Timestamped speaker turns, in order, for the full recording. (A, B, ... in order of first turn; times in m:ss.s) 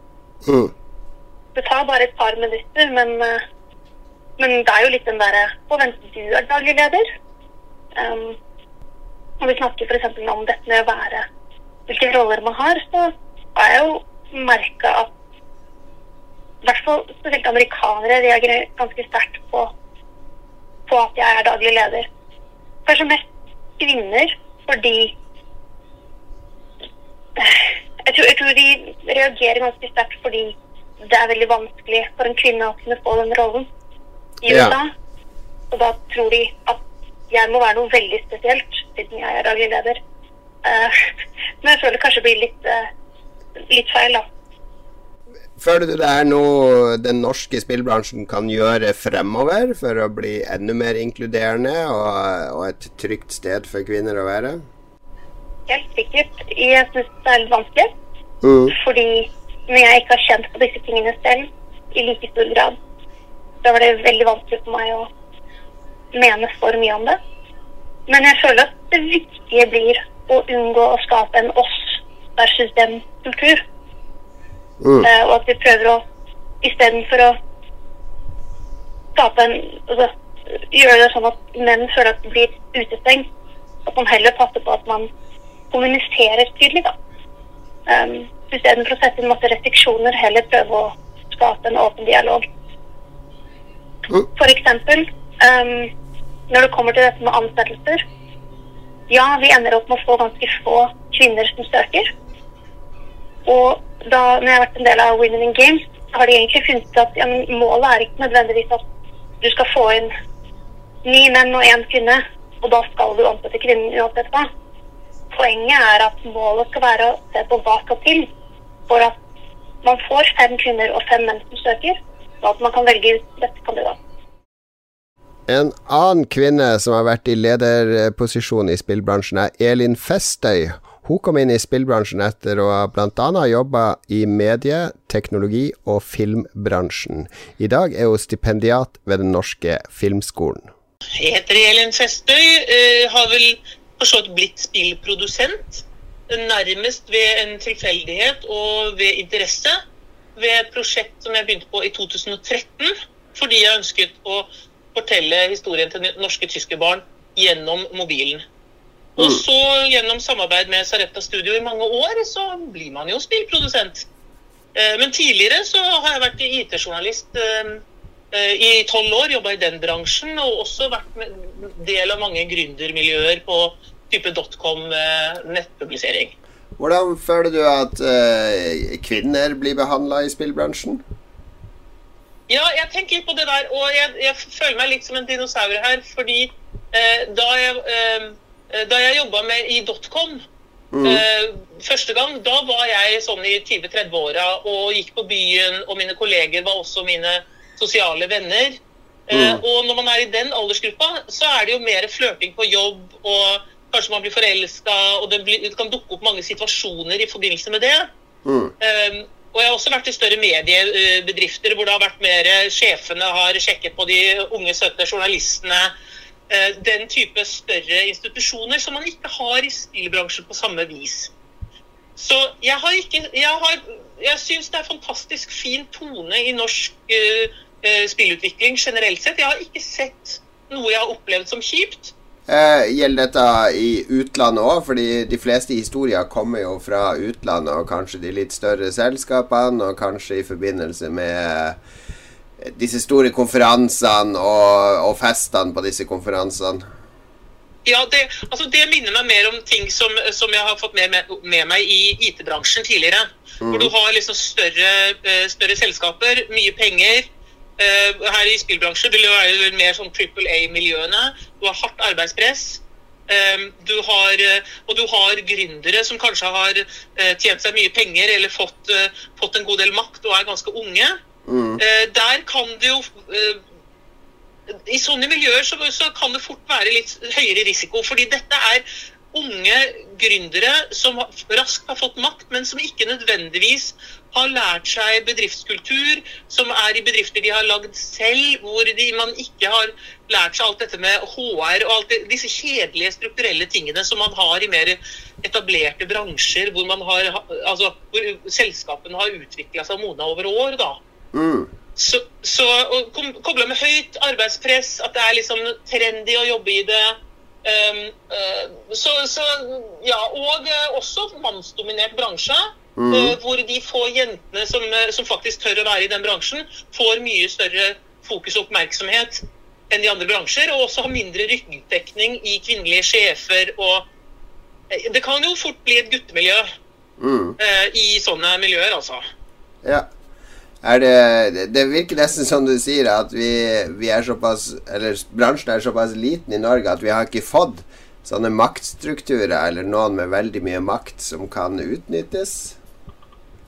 0:00.4-0:00.7 A
0:01.5-0:03.4 B
0:04.4-0:07.1 B
0:07.9-0:08.4 B
0:09.4-0:11.2 B
0:11.9-0:15.1 B
0:16.6-0:19.7 B
0:20.9-0:22.1 B
0:22.8-0:23.2 B
0:23.8-0:25.1 B
0:27.4-0:33.7 B
0:34.4-0:34.9 B
0:34.5-0:34.7 A
0:35.7-0:40.0 B
0:40.6-0:41.0 B
0:41.6-0:42.9 B
0:43.7-0:44.3 B
0:45.6-0:54.6 A
0:55.7-0:57.9 B
0:58.4-0:58.7 A
0:58.7-1:02.8 B
1:03.6-1:05.1 B
1:06.1-1:07.2 B
1:08.1-1:13.6 B
1:14.8-1:15.1 A
1:15.0-1:16.0 B
1:16.6-1:17.4 B
1:19.2-1:23.3 B
1:23.8-1:25.1 B
1:25.7-1:26.9 B
1:27.9-1:32.4 B
1:34.4-1:35.9 B
1:36.5-1:38.0 B
1:39.1-1:42.1 B
1:43.4-1:48.8 B
1:49.4-1:50.1 B
1:51.0-1:54.5 B
1:55.3-1:58.3 B
1:58.9-1:59.2 B
1:59.8-2:04.0 B
2:05.5-2:20.7 A
2:21.2-2:29.8 C
2:30.4-2:38.4 C
2:39.2-2:44.0 C
2:44.7-2:56.3 C
2:56.8-3:01.0 A
3:02.5-3:10.4 C
3:10.9-3:11.2 A
3:11.0-3:28.1 C
3:19.3-3:19.6 A
3:28.4-3:28.7 A
3:28.8-3:35.9 C
3:36.5-3:41.3 C
3:42.2-3:52.1 C
3:52.5-4:01.8 A
4:02.6-4:06.8 A
4:07.8-4:31.2 C
4:13.6-4:13.9 A
4:31.4-4:31.8 A
4:31.8-4:33.6 C
4:34.9-5:01.0 C
5:01.3-5:01.7 A
5:02.0-5:24.1 C
5:13.0-5:13.3 A
5:24.9-5:26.7 C
5:27.2-5:27.6 A
5:27.6-5:29.2 C
5:30.8-5:42.8 A